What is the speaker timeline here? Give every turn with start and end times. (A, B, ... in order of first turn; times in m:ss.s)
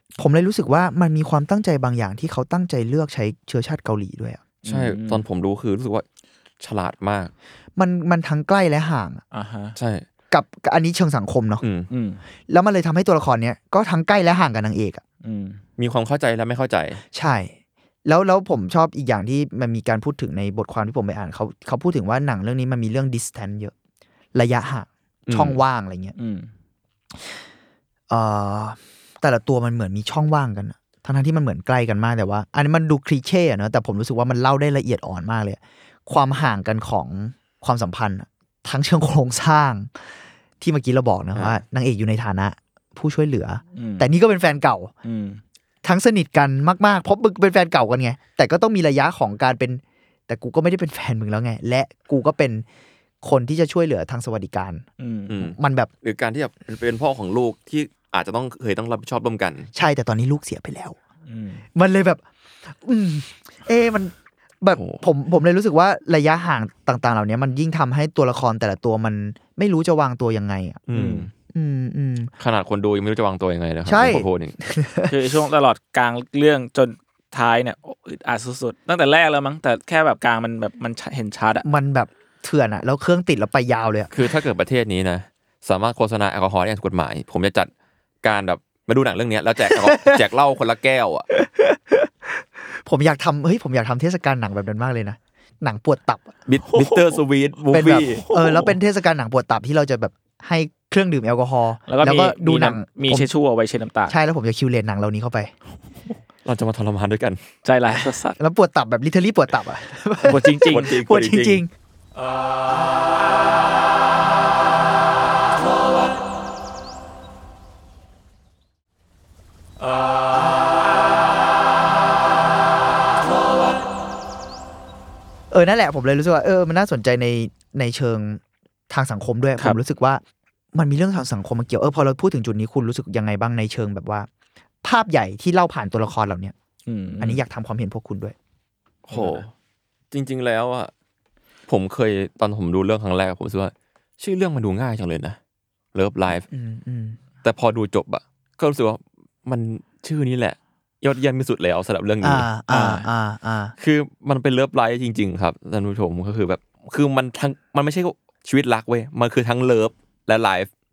0:00.2-0:04.4 A
0:04.6-0:05.2 B
0:04.6-0:06.0 C
0:06.6-0:07.3 C
0:07.8-0:09.2 A
0:09.3-0:09.7 B
0:09.8-0:10.0 C
0:10.3-0:11.6 A
0:11.6-0:11.9 C
0:11.9-0:12.2 B
0:12.5-0:15.0 A
0:15.2-0:15.6 B
0:15.8-0:17.0 C
0:17.1-0:17.5 A
0:18.0-0:23.7 A
0:24.3-0:26.1 A
0:25.3-0:25.6 C
0:26.2-0:26.5 B
0:28.1-0:40.0 A
0:40.6-0:44.9 A
0:41.3-0:41.6 C
0:43.8-0:44.1 B
0:45.0-0:45.4 B
0:45.8-0:52.6 A
0:53.2-0:54.8 A
0:55.0-0:55.4 B
0:55.3-0:59.7 C
0:55.4-0:55.9 A
0:59.7-1:01.0 A
1:01.2-1:01.6 B
1:01.7-1:02.2 A
1:02.8-1:10.8 A
1:04.7-1:05.0 C
1:10.9-1:11.3 C
1:10.9-1:11.3 B
1:11.5-1:12.3 A
1:12.4-1:14.6 C
1:13.8-1:15.1 A
1:15.1-1:21.6 B
1:21.6-1:24.1 A
1:24.1-1:27.7 C
1:28.2-1:31.2 C
1:29.7-1:30.2 A
1:31.3-1:36.3 A
1:36.4-1:38.2 C
1:36.7-1:37.2 B
1:37.7-1:43.3 A
1:38.1-1:38.7 B
1:41.9-1:44.1 B
1:44.1-1:45.5 A
1:46.4-1:47.4 C
1:47.6-1:48.4 B
1:48.4-1:51.7 A
1:50.2-1:50.9 B
1:50.7-1:51.6 C
2:05.5-2:10.2 A
2:10.7-2:14.3 A
2:14.8-2:16.5 A
2:16.9-2:17.4 B
2:17.2-2:18.4 A
2:19.1-2:19.5 C
2:19.1-2:19.4 B
2:20.1-2:20.9 C
2:21.7-2:25.4 C
2:25.9-2:26.4 C
2:26.5-2:27.2 A
2:27.4-2:32.5 C
2:32.2-2:33.7 A
2:32.7-2:33.0 B
2:33.8-2:40.7 C